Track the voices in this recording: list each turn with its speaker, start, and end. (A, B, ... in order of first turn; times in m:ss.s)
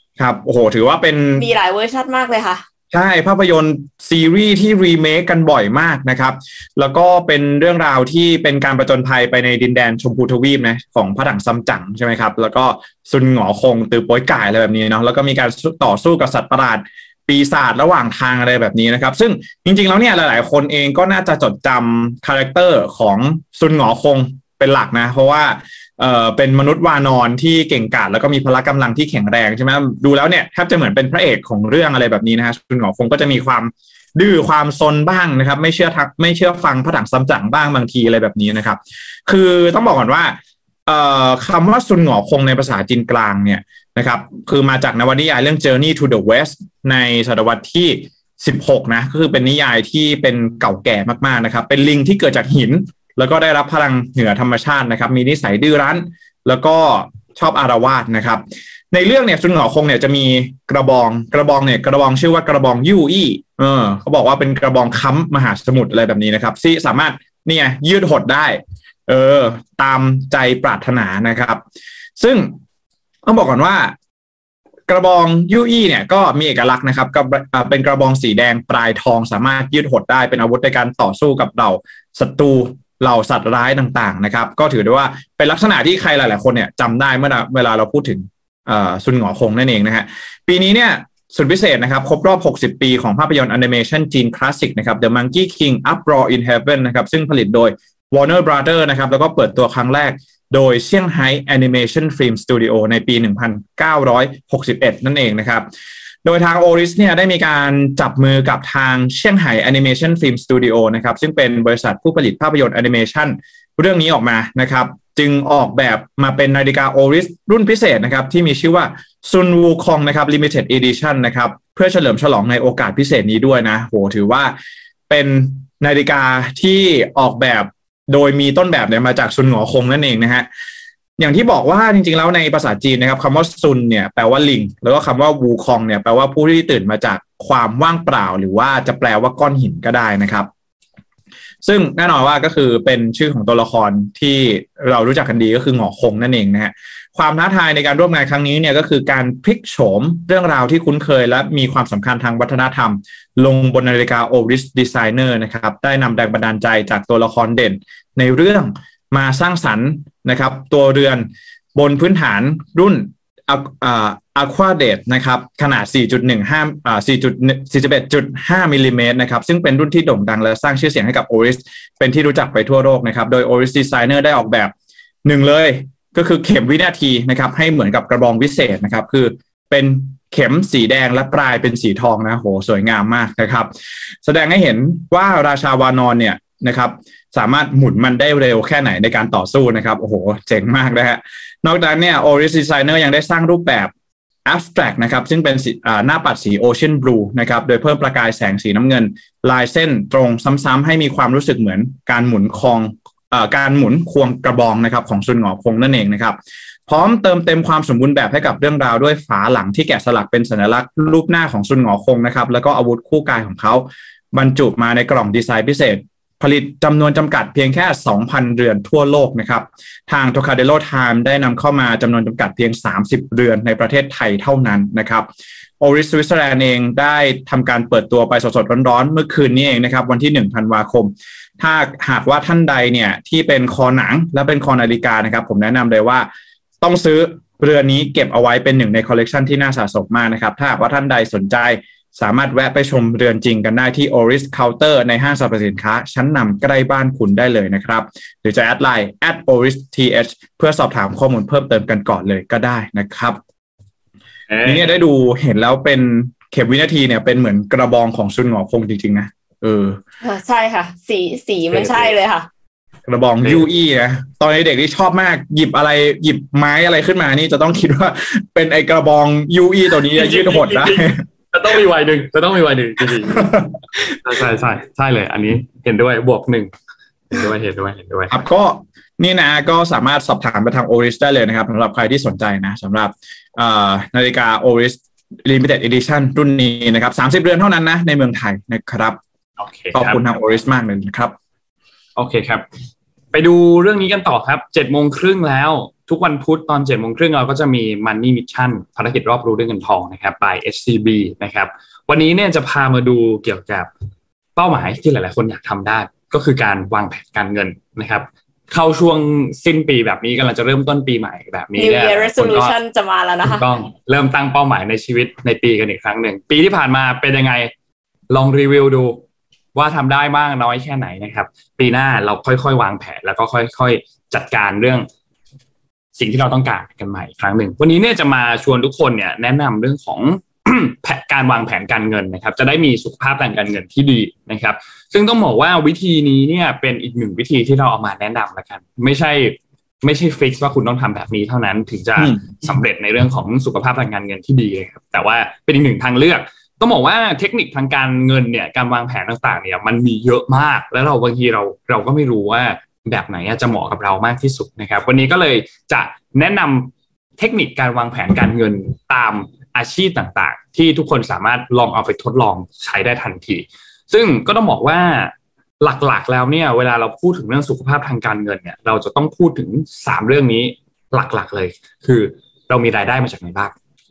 0:00.2-0:01.4 A
0:01.3-0:02.6 B
0:02.9-1:11.6 A
1:12.2-1:12.6 A
1:13.2-1:13.9 A
1:14.9-1:45.6 A
1:46.2-2:04.5 A
2:05.1-2:10.5 A
2:11.2-2:20.5 A
2:21.6-2:54.7 A
2:55.2-3:03.7 A
3:04.2-3:13.9 A
3:14.4-3:45.3 A
3:45.8-3:56.3 A
3:56.8-4:13.4 A
4:14.5-4:15.0 C
4:14.6-4:20.0 A
4:20.2-4:22.5 B
4:21.7-4:22.1 C
4:23.0-4:31.2 A
4:30.1-4:33.6 C
4:33.4-4:34.1 A
4:34.2-4:36.7 C
4:37.3-4:38.4 C
4:38.3-4:49.2 A
4:49.6-4:50.2 C
4:49.9-4:51.3 A
4:52.2-4:52.6 C
4:53.3-5:03.9 C
5:04.6-5:12.7 C
5:11.8-5:13.6 B
5:13.4-5:17.7 C
5:18.3-5:19.2 C
5:19.7-5:25.1 C
5:26.1-6:13.7 C